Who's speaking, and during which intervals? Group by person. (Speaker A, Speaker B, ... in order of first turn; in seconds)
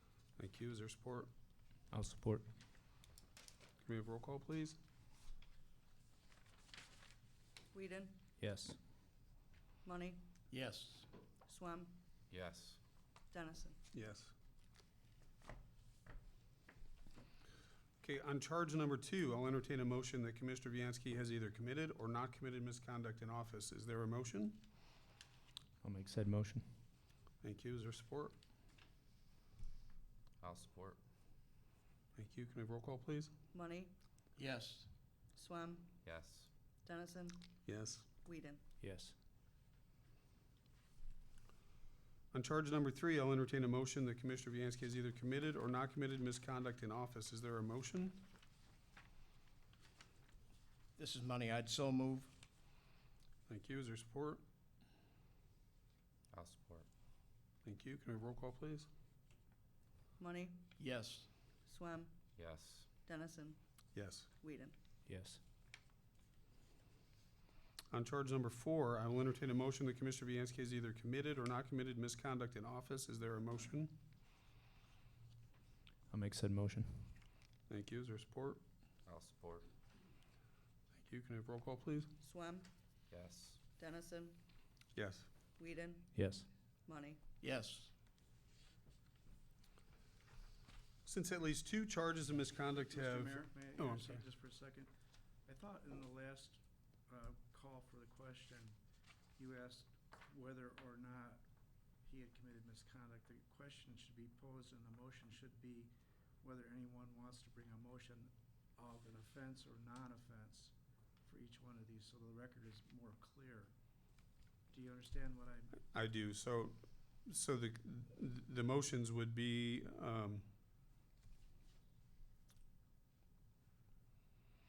Speaker A: 0.4-1.3, 3.8-4.8, 13.9-14.3, 18.0-24.6, 27.4-28.3, 32.1-33.3, 37.6-38.0, 42.3-48.2, 53.5-54.4, 57.6-58.9, 63.9-64.3, 67.9-74.0, 77.7-78.6, 80.9-82.1, 85.0-85.3, 91.0-94.2, 115.8-120.5
Speaker B: 1.9-2.4, 8.4-8.8, 25.8-26.6, 38.8-39.1, 65.0-65.4, 76.1-77.1, 86.1-86.5
Speaker C: 7.7-8.2, 9.8-10.2, 11.4-12.0, 13.3-13.8, 33.5-33.9, 35.4-35.9, 36.8-37.5, 38.2-38.6, 60.2-60.6, 61.6-62.2, 63.0-63.6, 64.4-64.7, 82.2-82.7, 83.8-84.4, 85.6-86.1, 86.8-87.2
Speaker D: 10.5-11.1, 34.4-34.9, 51.0-52.3, 60.8-61.3, 87.4-87.9
Speaker E: 12.3-12.8, 30.4-31.0, 36.0-36.5, 56.3-56.9, 62.4-62.9, 79.0-79.6, 83.1-83.6
Speaker F: 92.8-94.9, 95.5-98.8, 99.4-101.4, 102.0-105.9, 106.4-113.7, 114.7-115.8